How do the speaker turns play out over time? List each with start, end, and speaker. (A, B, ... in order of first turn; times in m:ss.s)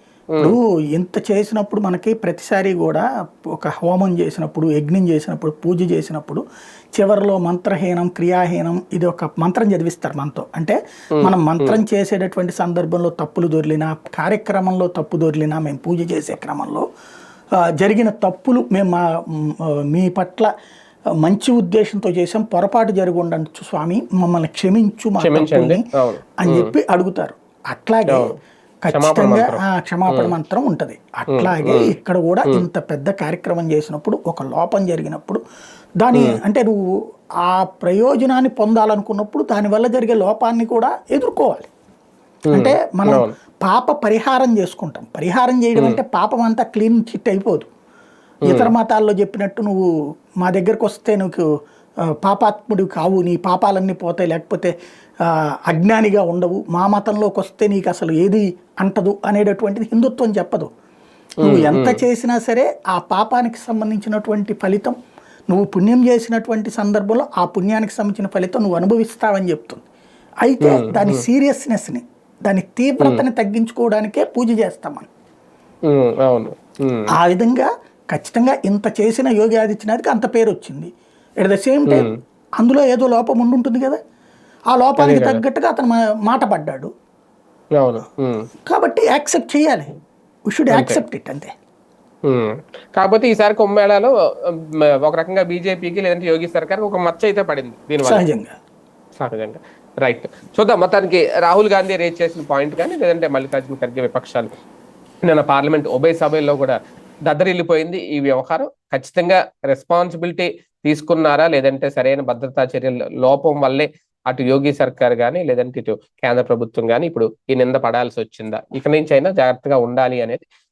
0:00.4-0:06.4 A
0:07.0-0:16.9 A
0:11.2-0:11.8 B
0:17.8-0:20.5 A
0:21.2-0:25.8 A
0:25.2-0:26.7 B
0:26.4-0:28.3 A
0:28.1-0:28.3 B
0:28.8-0:35.4 A
0:28.9-0:30.3 B
0:31.3-0:31.9 B
0:36.0-0:36.8 A
0:37.4-0:41.7 A
0:42.5-0:43.3 B
0:42.5-0:47.7 A
0:48.5-0:48.7 B
0:48.5-0:49.8 A
0:50.4-0:51.4 A
0:52.2-0:54.7 A
0:55.3-1:00.7 A
1:01.4-1:02.0 B
1:01.4-1:05.0 A
1:05.5-1:09.9 A
1:10.4-1:15.1 A
1:10.6-1:11.2 B
1:15.9-1:17.1 B
1:17.2-1:20.9 A
1:21.4-1:22.1 A
1:21.9-1:22.2 B
1:22.6-1:24.0 A
1:24.7-1:26.9 A
1:25.0-1:25.4 B
1:27.8-1:28.5 B
1:28.7-1:29.9 A
1:30.5-1:31.5 A
1:30.7-1:31.0 B
1:32.3-1:34.1 B
1:35.0-1:38.2 B
1:38.0-1:38.5 A
1:39.2-1:44.5 B
1:45.2-1:46.8 B
1:47.3-2:00.5 B